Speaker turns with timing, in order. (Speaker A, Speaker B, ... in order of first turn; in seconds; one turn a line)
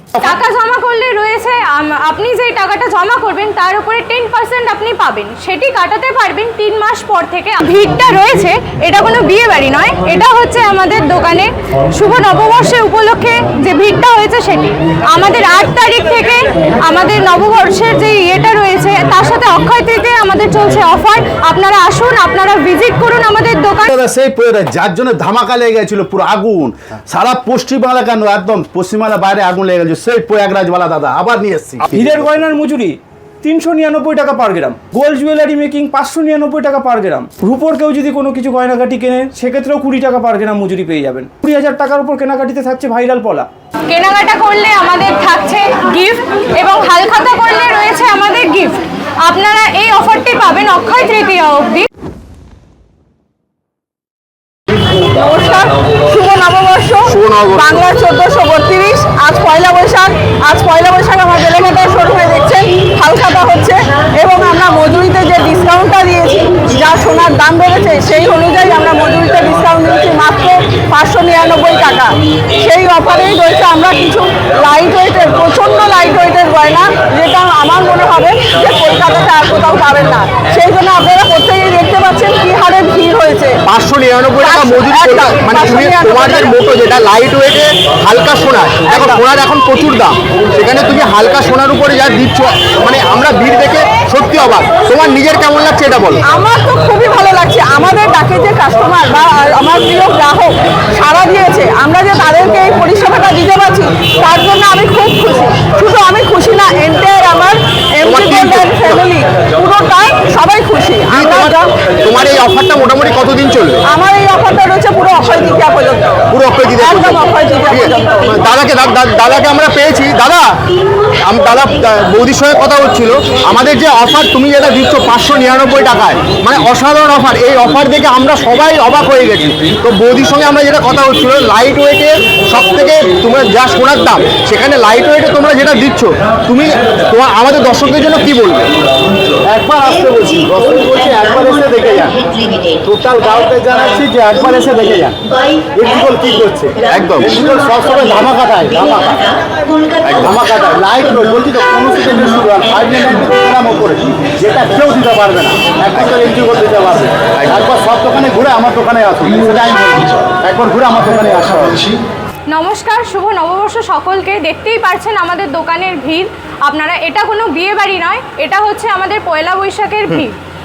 Speaker A: 0.2-23.9
Speaker B: 23.9-31.9
Speaker C: 31.9-43.5
Speaker A: 43.9-51.9
Speaker D: 55.0-83.6
Speaker E: 57.0-57.8
Speaker E: 83.7-96.2
Speaker D: 84.4-86.6
Speaker D: 88.9-89.2
Speaker D: 96.2-111.7
Speaker E: 108.0-109.1
Speaker E: 111.1-113.8
Speaker D: 113.8-118.4
Speaker E: 116.3-120.6
Speaker E: 121.2-138.7
Speaker B: 139.5-142.2
Speaker B: 142.8-145.2
Speaker B: 145.8-149.2
Speaker E: 146.9-147.3
Speaker E: 150.0-150.3
Speaker B: 150.2-161.8
Speaker E: 157.4-157.7
Speaker A: 162.5-170.3